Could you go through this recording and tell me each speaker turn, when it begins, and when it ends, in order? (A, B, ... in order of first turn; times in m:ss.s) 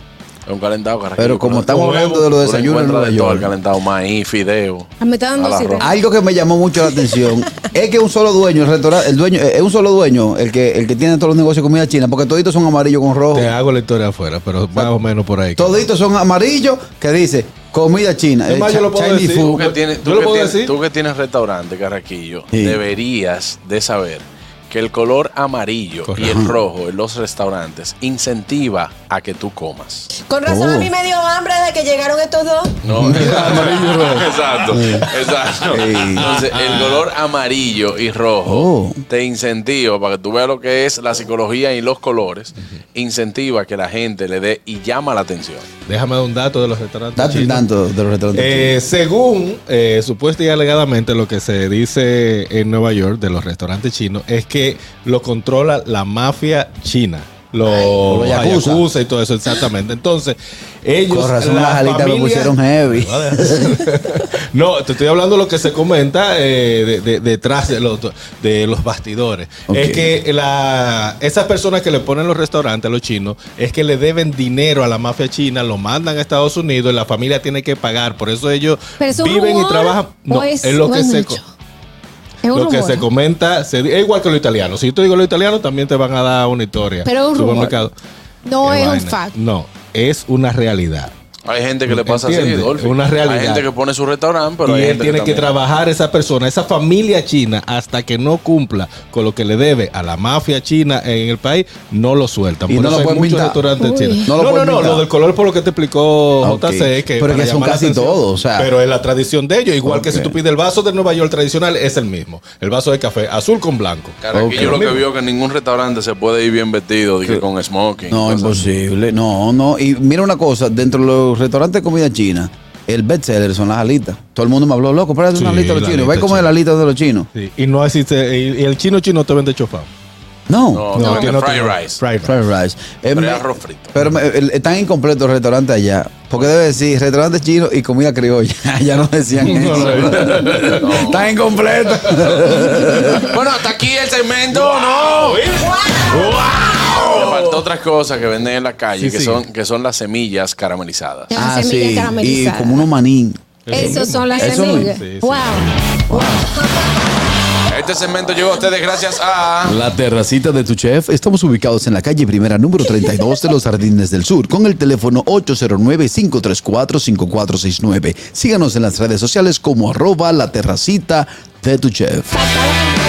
0:00.4-0:01.7 A
0:01.2-0:03.5 B
0:01.7-0:02.3 C
0:02.4-0:05.9 A
0:05.0-0:06.0 D
0:05.8-0:13.5 B
0:13.3-0:15.8 C
0:15.6-0:19.6 B
0:18.5-0:20.7 C
0:19.4-0:30.1 A
0:22.5-0:22.8 B
0:26.1-0:26.4 C
0:26.2-0:26.5 B
0:30.2-0:32.8 E
0:30.4-0:30.9 B
0:32.8-0:45.7 A
0:32.9-0:34.4 C
0:33.0-0:35.0 B
0:35.7-0:37.1 C
0:35.7-0:36.3 B
0:38.4-0:39.0 B
0:45.8-0:47.7 C
0:47.2-0:48.8 B
0:48.3-1:21.4 C
0:58.1-0:58.9 B
1:01.1-1:03.7 B
1:09.7-1:10.1 B
1:19.0-1:21.4 D
1:22.4-1:23.1 D
1:22.5-1:27.9 C
1:27.0-1:27.8 D
1:28.4-1:29.3 D
1:28.6-1:31.1 C
1:31.4-1:35.5 A
1:31.9-1:33.6 C
1:34.6-1:55.1 C
1:42.7-1:43.6 B
1:43.8-1:44.2 D
1:44.2-1:45.0 B
1:46.4-1:48.7 B
1:49.8-1:50.4 B
1:54.2-1:58.6 A
1:54.3-1:54.8 B
1:58.1-2:07.3 B
2:05.3-2:06.5 C
2:07.3-2:09.9 C
2:10.5-2:11.0 B
2:10.7-2:12.0 A
2:10.9-2:12.5 C
2:11.0-2:11.3 D
2:12.2-2:23.3 B
2:13.1-2:13.9 A
2:19.4-2:20.9 C
2:20.5-2:21.3 A
2:23.2-2:25.5 A
2:24.5-2:27.6 C
2:26.9-2:31.4 A
2:29.0-2:29.4 C
2:31.3-2:32.9 D
2:31.3-2:34.9 B
2:33.6-2:35.6 C
2:33.7-2:36.4 D
2:36.1-2:36.4 B
2:37.7-2:39.8 A
2:39.6-2:52.3 B